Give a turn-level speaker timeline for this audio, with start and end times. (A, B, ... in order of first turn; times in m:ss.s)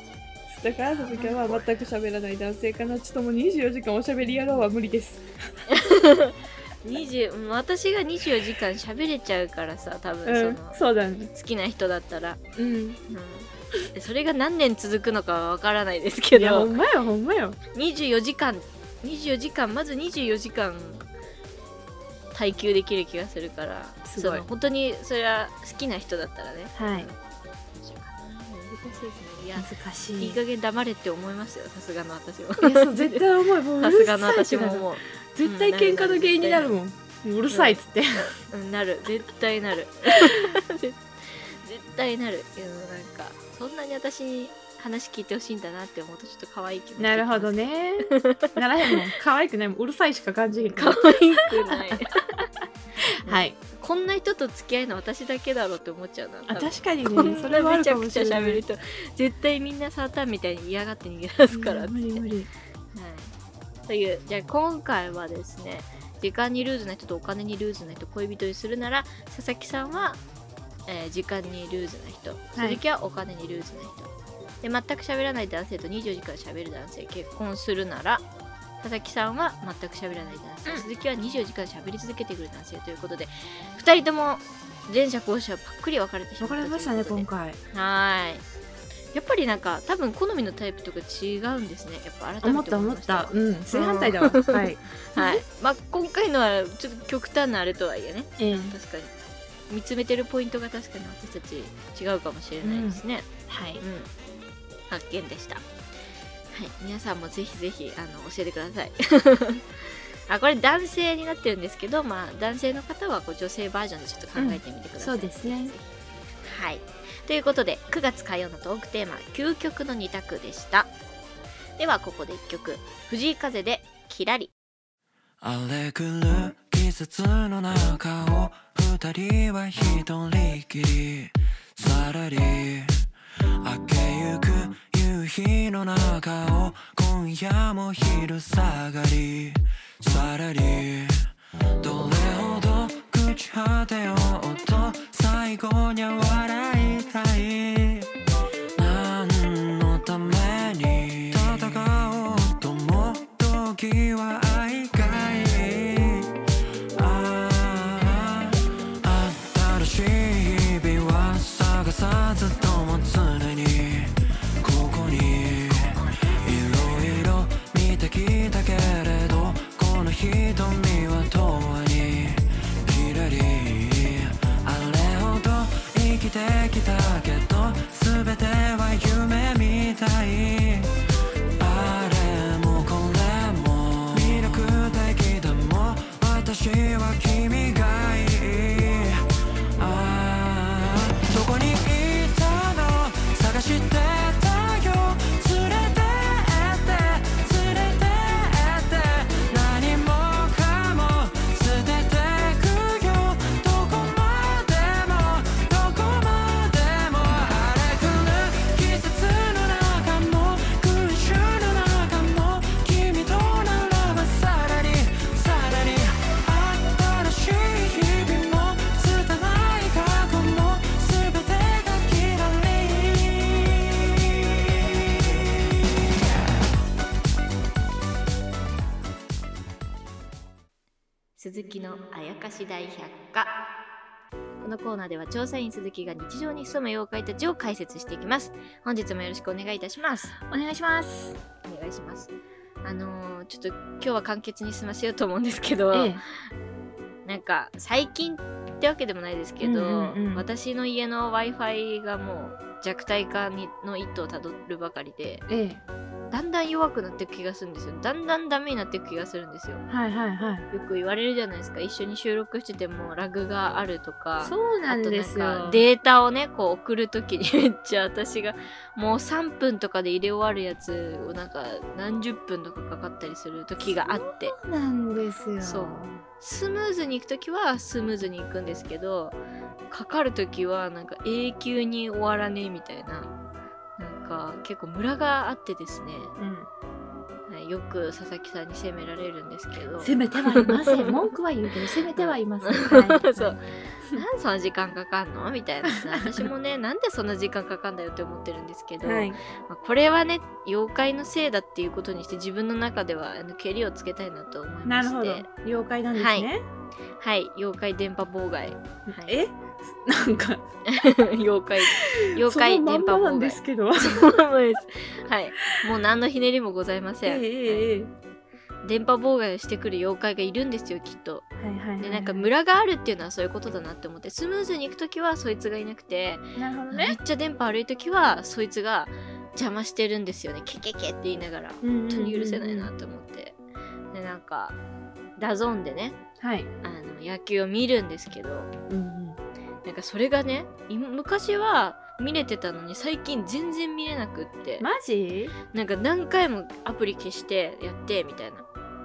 0:00.5-0:05.2 A
0:00.6-0:01.7 B
0:04.2-0:04.7 B
0:05.7-0:12.4 B
0:10.2-0:11.3 A
0:12.6-0:13.0 A
0:13.1-0:16.8 B
0:16.4-0:17.6 A
0:17.7-0:21.1 B
0:22.3-0:27.2 B
0:24.1-0:24.4 A
0:26.8-0:27.1 A
0:27.8-0:33.2 B
0:29.6-0:30.4 A
0:32.6-0:38.3 A
0:33.8-0:36.8 B
0:37.5-0:49.0 B
0:47.0-0:51.1 A
0:50.8-0:52.2 B
0:51.7-0:52.4 A
0:53.0-0:53.6 A
0:53.2-1:02.2 B
0:56.5-0:58.6 A
1:01.5-1:02.5 A
1:02.9-1:03.3 B
1:03.9-1:10.2 B
1:10.9-1:14.1 B
1:14.6-1:18.2 B
1:18.8-1:28.4 B
1:26.4-1:27.6 A
1:29.1-1:39.1 B
1:32.4-1:35.4 A
1:38.4-1:38.8 A
1:39.7-1:43.3 B
1:42.6-1:43.8 A
1:43.8-1:44.1 B
1:44.9-1:45.6 B
1:46.5-2:00.9 B
1:54.4-1:55.8 A
2:01.8-2:04.5 B
2:05.4-2:13.0 C
2:13.6-2:21.3 C
2:21.8-2:28.1 C
2:28.8-2:36.3 C
2:36.9-3:00.9 C
3:01.6-3:09.2 C
3:09.8-3:46.6 C
3:51.4-3:53.6 B
3:54.6-4:00.4 B
4:00.4-4:01.4 A
4:01.6-4:06.2 B
4:05.9-4:06.2 A
4:07.2-4:15.4 B
4:09.6-4:10.5 A
4:15.5-4:15.8 A
4:16.3-4:19.8 B
4:19.9-4:20.7 A
4:20.7-4:34.6 B
4:24.4-4:25.8 A
4:33.8-4:36.2 A
4:35.6-4:39.4 B
4:39.9-4:43.3 B
4:44.0-4:46.4 B
4:46.4-4:46.7 A
4:47.5-4:51.2 B
4:50.0-4:54.2 A
4:52.2-5:05.5 B
4:59.0-4:59.4 A
5:04.8-5:06.6 A
5:06.2-5:06.5 B
5:07.2-5:09.4 B
5:09.1-5:10.6 A
5:10.9-5:17.9 B
5:11.8-5:14.3 A
5:17.2-5:18.1 A
5:18.8-5:21.5 B
5:21.6-5:22.5 A
5:22.0-5:33.6 B
5:26.6-5:27.2 A
5:31.8-5:32.9 A
5:34.1-5:34.8 B
5:35.4-5:36.2 B
5:36.4-5:36.7 A
5:36.8-5:38.7 B
5:38.9-5:39.4 A
5:39.8-5:44.9 B
5:44.8-5:45.5 A
5:45.7-5:48.7 B